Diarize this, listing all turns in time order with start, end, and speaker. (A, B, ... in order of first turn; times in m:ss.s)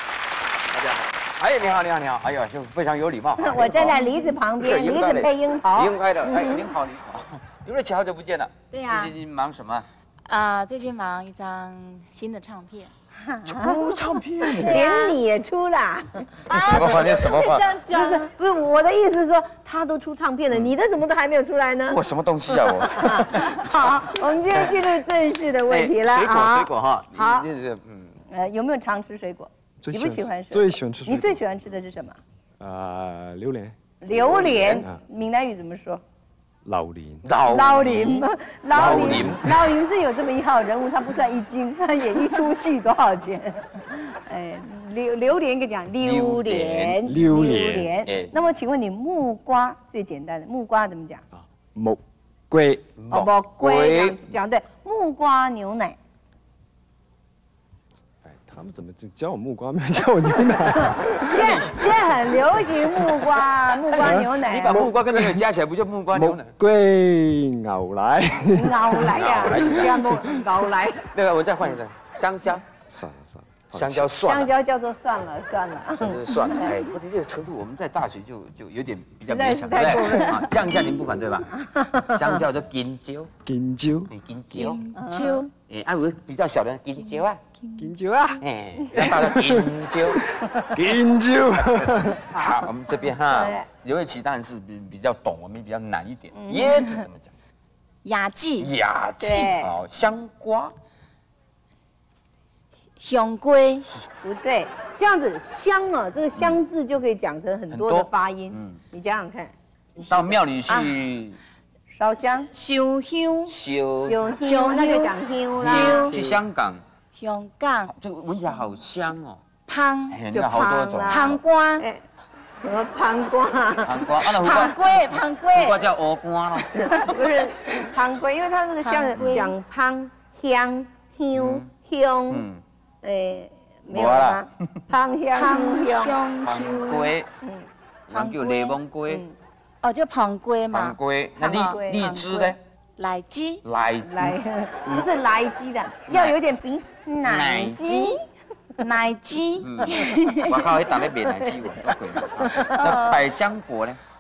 0:00.7-0:09.9 A
0:03.4-0:06.7 B
0:08.7-0:09.1 C
0:10.2-0:12.9 C
0:13.2-0:13.7 B
0:13.4-0:15.0 A
0:14.5-0:15.2 C
0:14.6-0:27.5 B
0:16.5-0:17.8 A
0:16.5-0:18.3 C
0:21.9-0:24.0 A
0:24.5-0:24.9 A
0:25.7-0:28.1 A
0:28.3-0:32.2 B
0:29.8-0:31.4 D
0:32.6-0:33.8 D
0:34.0-0:36.0 B
0:34.1-0:34.9 A
0:34.5-0:35.0 D
0:36.6-0:37.2 D
0:37.2-0:39.5 A
0:37.5-0:51.2 B
0:38.8-0:39.4 D
0:46.0-0:47.0 A
0:47.0-0:47.9 D
0:48.0-0:48.3 A
0:51.3-0:52.9 D
0:53.0-0:54.2 A
0:53.1-0:56.0 B
0:58.2-1:01.7 D
1:01.1-1:02.4 A
1:01.1-1:04.9 B
1:03.1-1:06.5 A
1:03.9-1:05.4 D
1:06.1-1:10.2 D
1:08.5-1:11.1 B
1:09.1-1:10.2 A
1:11.1-1:12.6 A
1:12.9-1:14.1 D
1:13.7-1:14.5 A
1:14.2-1:16.7 B
1:15.9-1:21.5 A
1:19.2-1:20.5 B
1:21.6-1:22.2 B
1:22.0-1:23.3 A
1:23.4-1:24.1 D
1:24.1-1:24.8 A
1:24.5-1:25.5 C
1:24.9-1:25.4 B
1:25.7-1:27.4 A
1:27.6-1:27.9 C
1:27.8-1:32.2 D
1:28.4-1:30.2 A
1:31.6-1:37.3 A
1:33.3-1:33.7 B
1:36.3-1:37.0 B
1:38.0-1:38.7 C
1:38.6-1:40.7 A
1:39.2-1:39.7 B
1:43.0-1:43.9 C
1:44.2-1:50.2 B
1:47.7-1:48.8 A
1:50.1-1:51.4 A
1:50.7-1:50.9 C
1:51.9-1:52.5 B
1:52.2-1:53.5 C
1:53.5-1:54.3 A
1:54.0-1:56.2 B
1:54.3-1:56.2 C
1:55.6-1:56.8 A
1:57.1-1:57.9 C
1:57.9-1:59.4 A
1:59.7-2:00.2 C
2:00.1-2:01.4 A
2:00.3-2:02.0 B
2:01.1-2:01.8 C
2:02.6-2:04.7 B
2:03.8-2:07.1 A
2:04.4-2:05.8 C
2:06.8-2:12.4 B
2:08.8-2:09.5 C
2:09.1-2:09.4 A
2:11.3-2:11.6 A
2:12.3-2:12.6 A
2:13.0-2:16.2 B
2:13.9-2:14.8 A
2:15.3-2:17.1 C
2:16.4-2:17.3 A
2:17.4-2:17.7 B
2:18.1-2:19.2 A
2:18.1-2:18.8 C
2:19.1-2:19.3 B
2:19.8-2:23.6 C
2:20.7-2:22.6 A
2:21.4-2:22.5 B
2:23.6-2:25.0 A
2:24.0-2:28.2 B
2:26.1-2:26.4 A
2:27.2-2:27.8 A
2:27.9-2:28.1 C
2:28.8-2:30.6 C
2:29.6-2:34.0 A
2:31.3-2:33.2 B
2:32.7-2:33.2 C